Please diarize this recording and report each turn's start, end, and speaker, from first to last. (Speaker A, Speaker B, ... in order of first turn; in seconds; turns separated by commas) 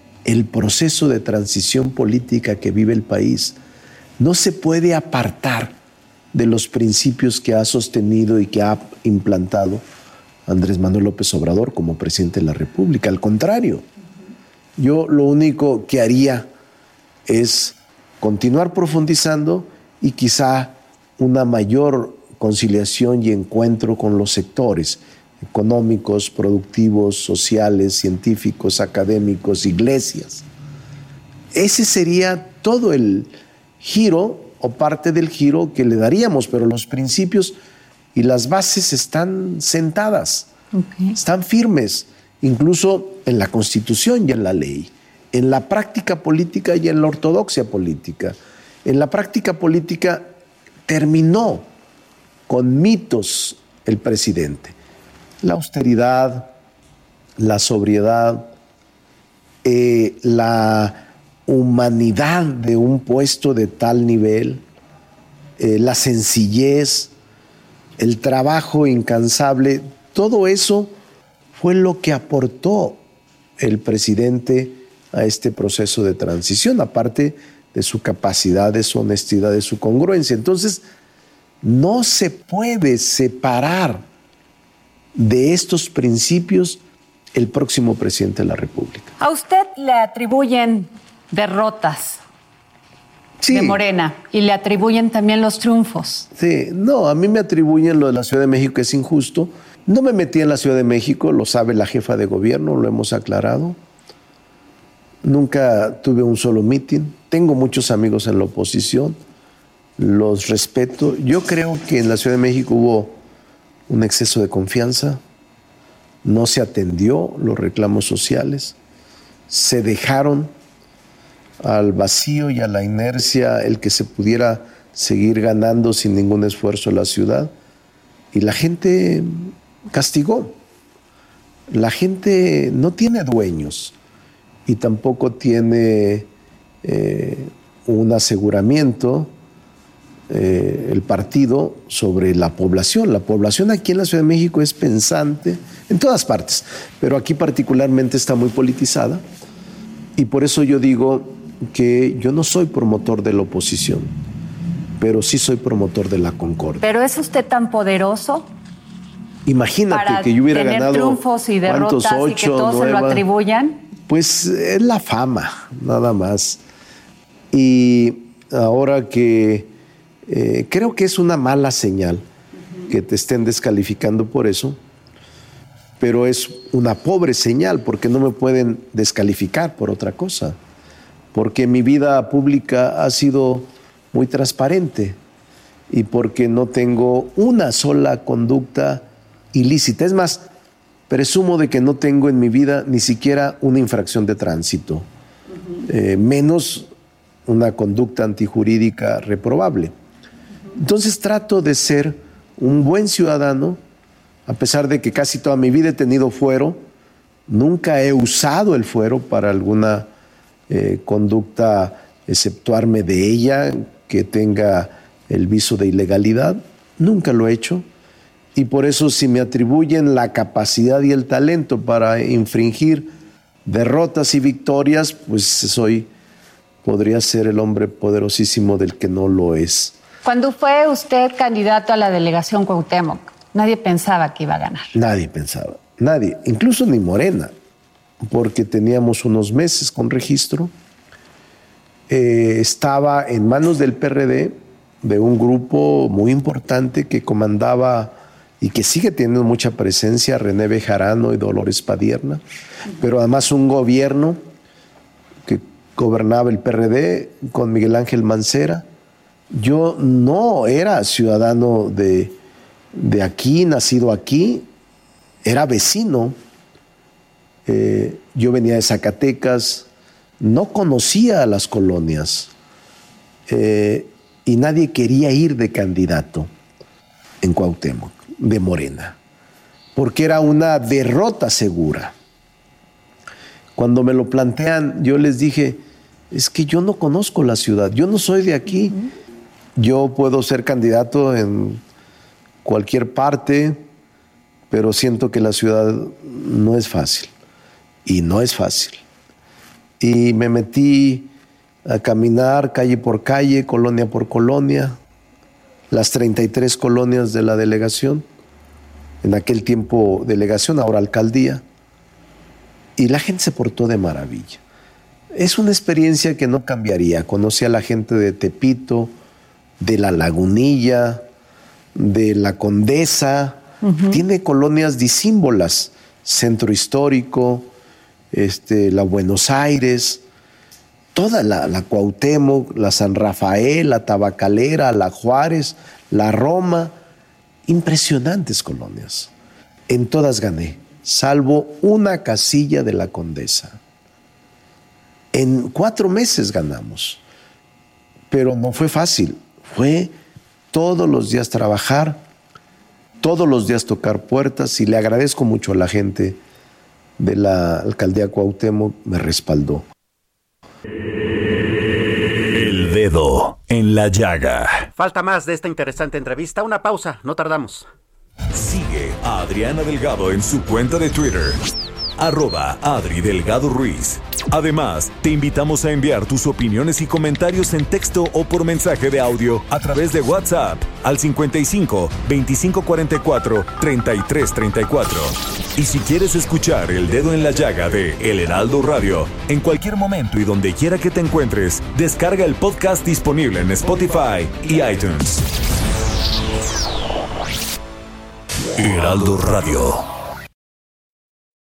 Speaker A: 0.2-3.6, Speaker A: 4.2-5.8, Speaker A: 6.3-9.8, Speaker A: 10.5-13.9, Speaker A: 14.8-16.5, Speaker A: 17.3-30.5, Speaker A: 31.5-37.6, Speaker A: 38.1-40.5, Speaker B: 40.7-41.2, Speaker A: 41.1-50.3, Speaker A: 50.9-51.7, Speaker A: 52.5-54.8, Speaker A: 55.4-56.5, Speaker A: 57.4-58.5, Speaker A: 59.6-64.6, Speaker A: 65.6-67.1, Speaker A: 68.0-70.9, Speaker A: 71.5-73.0, Speaker A: 73.6-80.8, Speaker A: 81.6-84.0, Speaker A: 85.2-86.8, Speaker A: 87.3-89.1, Speaker B: 89.2-92.2, Speaker A: 93.4-93.8, Speaker B: 93.5-96.3, Speaker A: 96.3-103.8, Speaker A: 105.2-109.2, Speaker A: 110.0-113.2, Speaker A: 113.9-115.2, Speaker A: 116.2-118.8, Speaker A: 119.5-120.5, Speaker A: 121.6-127.5, Speaker A: 128.3-130.6, Speaker A: 131.7-134.0, Speaker A: 134.7-136.3, Speaker A: 136.8-139.3, Speaker A: 140.3-149.2, Speaker A: 150.2-154.2, Speaker A: 155.0-156.8, Speaker B: 156.8-158.5, Speaker A: 159.4-163.2, Speaker B: 159.9-163.8, Speaker A: 164.1-166.6, Speaker A: 167.5-169.7, Speaker A: 170.3-172.3, Speaker A: 172.9-174.8, Speaker A: 176.0-180.6, Speaker A: 181.3-185.2, Speaker A: 185.9-190.5, Speaker A: 191.1-195.1, Speaker A: 195.8-196.9, Speaker A: 197.5-199.9, Speaker A: 200.7-203.8, Speaker A: 204.5-206.9, Speaker A: 207.5-210.1, Speaker A: 210.7-217.9, Speaker A: 218.6-223.1, Speaker A: 223.7-226.1, Speaker A: 226.8-230.0, Speaker B: 230.2-234.9, Speaker A: 234.9-237.5, Speaker A: 238.2-240.7, Speaker A: 242.1-252.4, Speaker A: 252.9-254.4, Speaker A: 255.4-258.9, Speaker A: 259.5-262.4, Speaker A: 262.9-264.7, Speaker A: 265.4-266.4, Speaker A: 267.7-269.9, Speaker A: 270.4-272.5, Speaker A: 273.5-276.5, Speaker A: 277.4-279.2, Speaker A: 279.9-282.1, Speaker A: 283.8-289.0, Speaker A: 289.8-291.8, Speaker A: 292.6-293.8, Speaker A: 294.7-297.3, Speaker A: 298.1-299.0, Speaker A: 300.0-301.3, Speaker A: 301.9-305.0, Speaker A: 305.9-308.3, Speaker A: 309.2-311.6, Speaker A: 313.0-314.6, Speaker A: 315.3-319.1, Speaker A: 319.8-321.3, Speaker A: 321.9-327.7, Speaker B: 323.8-324.2, Speaker A: 328.3-330.2, Speaker A: 331.1-337.0, Speaker A: 337.7-339.3, Speaker A: 339.9-343.8, Speaker A: 345.3-347.2, Speaker A: 348.3-350.1, Speaker A: 350.7-352.3, Speaker A: 353.2-356.4, Speaker A: 357.2-359.9, Speaker C: 362.5-364.9, Speaker D: 365.0-367.9, Speaker C: 368.5-371.6, Speaker C: 372.2-395.5, Speaker C: 398.8-400.1